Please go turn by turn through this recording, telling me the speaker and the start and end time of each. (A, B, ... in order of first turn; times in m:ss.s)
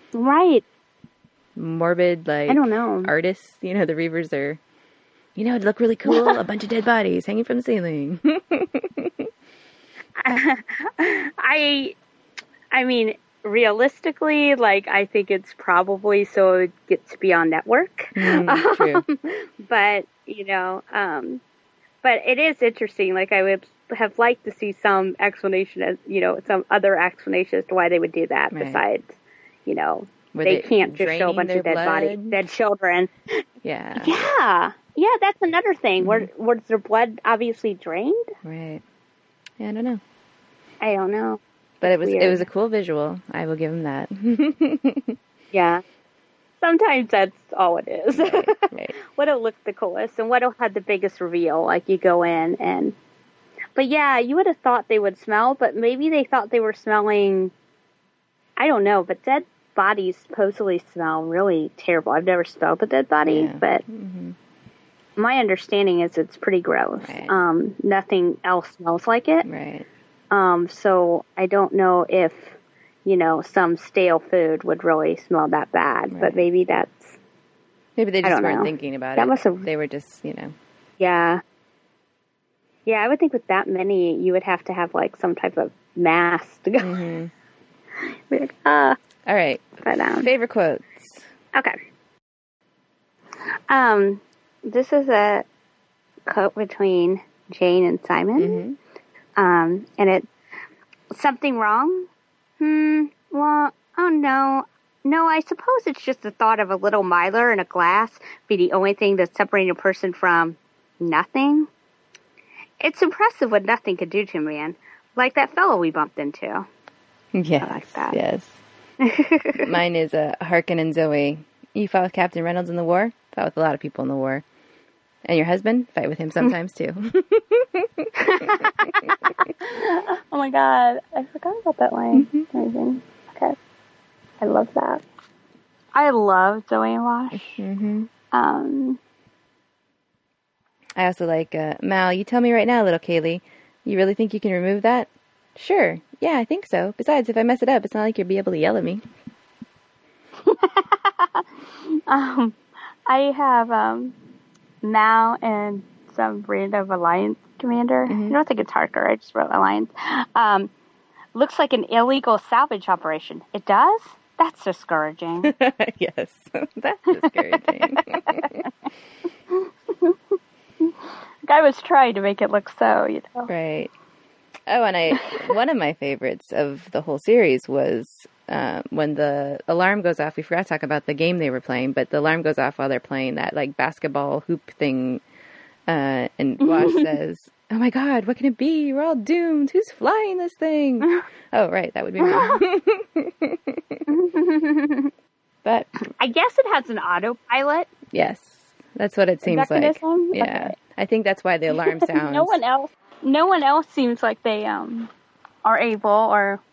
0:00.1-0:00.6 A
0:01.6-0:04.6 B
0:02.5-0:03.1 A
0:05.4-0:09.3 B
0:06.1-0:06.4 A
0:10.2-0:12.0 A
0:12.7-0:21.4 A
0:18.1-0:19.0 B
0:22.0-0:29.1 A
0:28.5-0:28.8 B
0:29.6-0:33.1 A
0:30.3-0:32.4 B
0:33.6-0:34.2 B
0:34.0-0:38.3 A
0:36.0-0:36.3 B
0:38.4-0:38.8 B
0:39.6-0:40.0 B
0:40.8-0:42.5 A
0:41.8-0:45.2 B
0:45.5-0:45.8 A
0:46.6-0:52.9 A
0:48.2-0:48.9 B
0:53.7-0:57.5 A
0:58.6-1:03.8 A
1:03.2-1:04.4 B
1:05.2-1:09.4 A
1:07.0-1:07.3 B
1:09.4-1:09.9 B
1:10.3-1:17.2 A
1:16.1-1:16.4 B
1:18.0-1:20.5 B
1:18.2-1:19.6 A
1:21.0-1:21.4 A
1:22.9-1:27.0 A
1:26.8-1:27.3 B
1:28.3-1:29.0 A
1:29.2-1:31.2 B
1:29.8-1:30.3 A
1:33.7-1:35.4 A
1:36.3-1:38.6 A
1:38.4-1:38.8 B
1:39.4-1:40.2 A
1:41.1-1:42.1 A
1:42.6-1:51.7 A
1:52.8-1:56.6 A
1:57.3-1:58.6 B
1:57.6-1:58.2 A
1:59.0-1:59.6 A
1:59.5-2:04.4 B
2:05.2-2:09.1 B
2:08.2-2:13.5 A
2:12.1-2:12.4 B
2:14.4-2:15.0 A
2:15.9-2:17.6 A
2:17.3-2:18.1 B
2:18.3-2:19.0 A
2:21.0-2:29.0 B
2:30.4-2:32.6 A
2:33.1-2:34.1 A
2:34.8-2:40.7 A
2:38.1-2:38.4 B
2:41.3-2:45.5 A
2:45.4-2:48.6 B
2:47.2-2:48.7 A
2:49.5-2:50.1 A
2:51.4-2:53.5 A
2:53.5-2:53.9 B
2:54.7-3:05.2 B
3:05.9-3:14.0 B
3:06.6-3:07.1 A
3:12.2-3:12.6 A
3:14.1-3:15.1 A
3:15.6-3:15.9 B
3:16.1-3:17.9 A
3:18.1-3:22.6 B
3:19.4-3:20.7 A
3:21.7-3:25.1 A
3:25.6-3:26.6 A